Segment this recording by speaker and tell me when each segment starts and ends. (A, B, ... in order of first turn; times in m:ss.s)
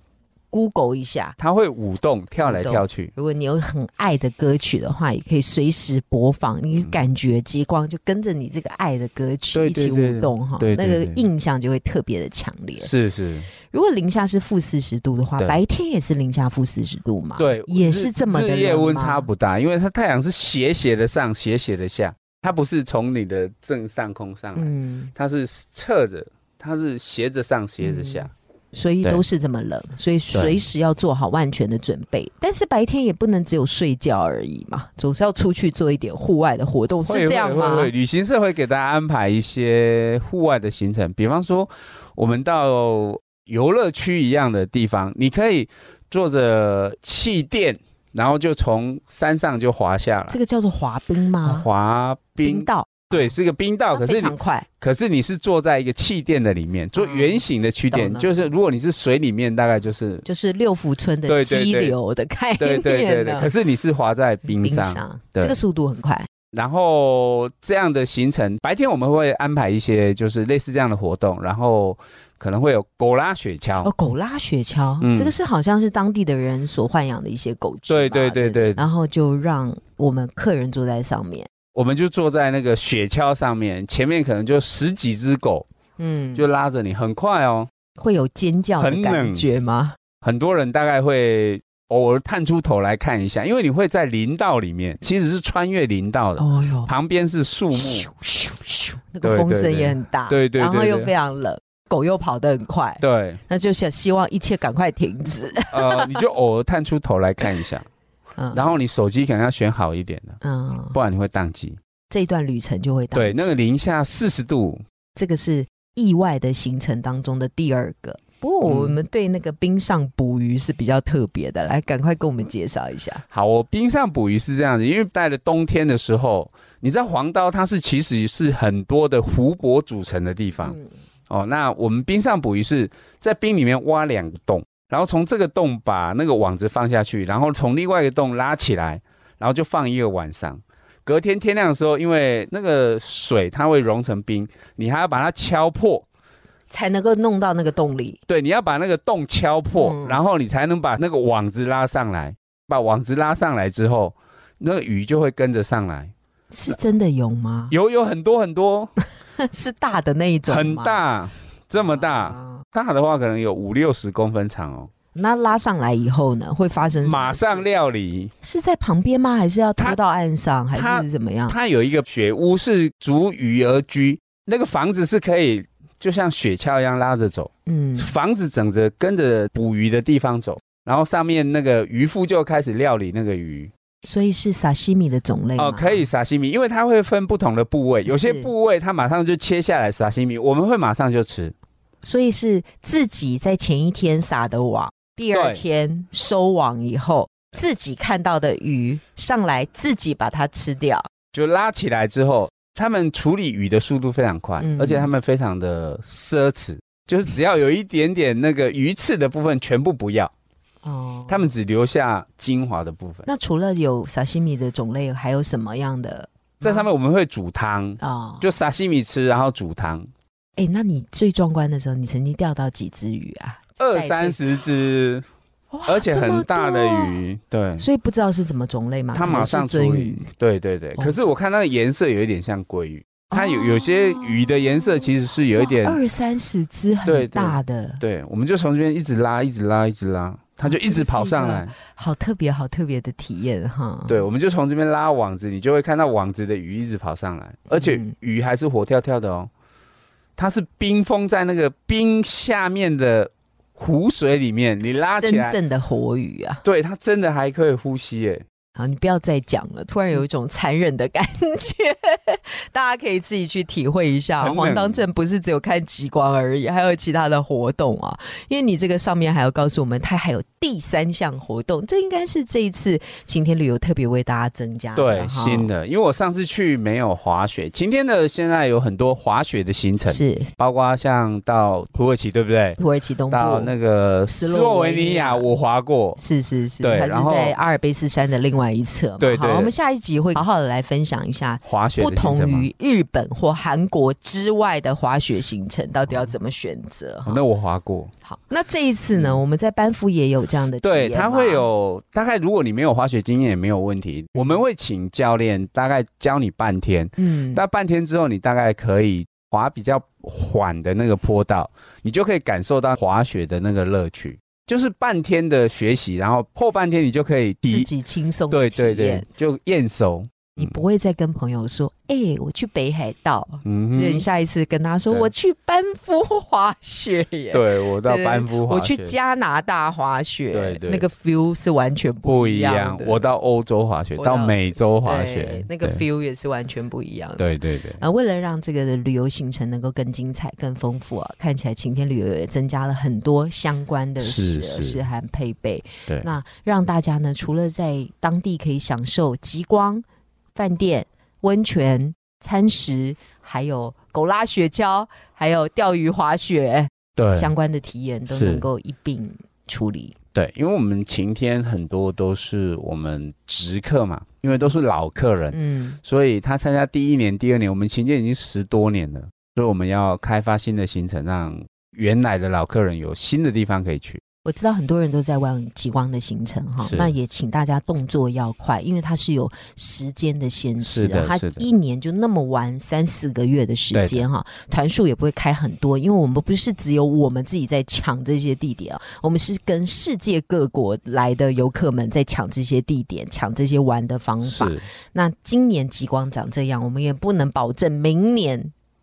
0:00.5-0:01.4 A
0:01.4-0:03.1 B
0:02.4-0:12.9 A
0:09.6-0:11.3 B
0:12.8-0:13.5 B
0:13.7-0:19.3 A
0:17.4-0:28.3 B
0:24.6-0:25.1 A
0:27.8-0:37.9 A
0:30.3-0:30.6 B
0:37.0-0:50.4 B
0:50.3-0:51.7 A
0:51.4-1:00.2 B
0:52.4-0:53.3 A
0:53.9-0:54.7 A
0:57.0-0:58.5 A
1:00.2-1:03.5 A
1:01.3-1:02.0 B
1:02.6-1:05.6 B
1:04.5-1:06.3 A
1:06.5-1:13.9 B
1:13.8-1:21.5 A
1:15.0-1:15.3 B
1:17.9-1:18.8 B
1:21.7-1:25.7 B
1:26.0-1:26.5 A
1:26.4-1:27.7 B
1:28.0-1:30.0 A
1:28.8-1:29.4 B
1:30.2-1:38.1 B
1:36.4-1:36.9 A
1:37.7-1:46.2 A
1:39.2-1:41.1 B
1:43.0-1:43.4 B
1:45.7-1:47.9 B
1:48.4-1:48.7 A
1:48.5-1:50.4 B
1:50.4-1:51.0 A
1:50.9-1:51.8 B
1:52.1-1:53.5 A
1:53.1-1:54.8 B
1:55.2-2:03.2 A
1:58.6-1:59.0 B
2:03.3-2:10.8 B
2:10.6-2:10.9 A
2:11.3-2:26.0 B
2:26.7-2:28.2 A
2:28.3-2:36.1 B
2:29.7-2:30.2 A
2:36.5-2:37.7 A
2:37.7-2:38.9 B
2:39.4-2:41.0 A
2:40.5-2:44.9 B
2:41.8-2:42.6 A
2:45.1-2:47.7 A
2:47.0-2:48.3 B
2:48.4-2:51.6 A
2:50.7-3:03.7 B
2:57.7-2:58.1 A
3:04.0-3:06.1 A
3:05.6-3:11.5 B
3:08.1-3:08.5 A
3:12.0-3:21.1 A
3:15.3-3:15.6 B
3:21.3-3:30.3 B
3:24.6-3:25.1 A
3:30.8-3:31.5 A
3:31.3-3:33.3 B
3:33.3-3:36.9 A
3:36.6-3:40.1 B
3:38.0-3:38.5 A
3:40.6-3:44.4 A
3:43.8-3:45.2 B
3:45.7-3:47.2 A
3:45.9-3:47.8 B
3:47.8-3:50.3 A
3:49.1-3:56.0 B
3:51.0-3:51.3 A
3:53.3-3:58.0 A
3:57.0-4:01.7 B
4:00.6-4:04.3 A
4:04.1-4:09.5 B
4:07.7-4:08.1 A
4:10.4-4:15.6 B
4:15.2-4:16.6 A
4:16.6-4:18.4 B
4:18.8-4:35.7 A
4:24.4-4:25.0 B
4:35.0-4:42.8 B
4:40.1-4:40.5 A
4:42.8-4:43.7 A
4:43.3-4:46.2 B
4:44.3-4:45.5 A
4:46.2-4:57.4 A
4:46.8-4:47.6 B
4:49.2-4:49.7 B
4:51.6-4:52.7 B
4:57.3-4:58.1 B
4:58.2-5:01.7 A
5:00.8-5:17.9 B
5:07.2-5:07.6 A
5:17.7-5:19.3 A
5:18.5-5:20.7 B
5:20.6-5:33.2 A
5:23.6-5:24.3 B
5:27.5-5:29.2 B
5:30.5-5:31.1 B
5:32.2-5:36.0 B
5:34.2-6:00.2 A
5:37.4-5:38.0 B
5:44.2-5:45.0 B
5:57.2-5:57.5 B
5:58.3-5:58.7 B
6:00.3-6:14.2 B
6:05.5-6:06.0 A
6:14.4-6:38.7 A
6:16.8-6:17.1 B
6:20.8-6:21.7 B
6:23.9-6:24.2 B
6:34.4-6:34.8 B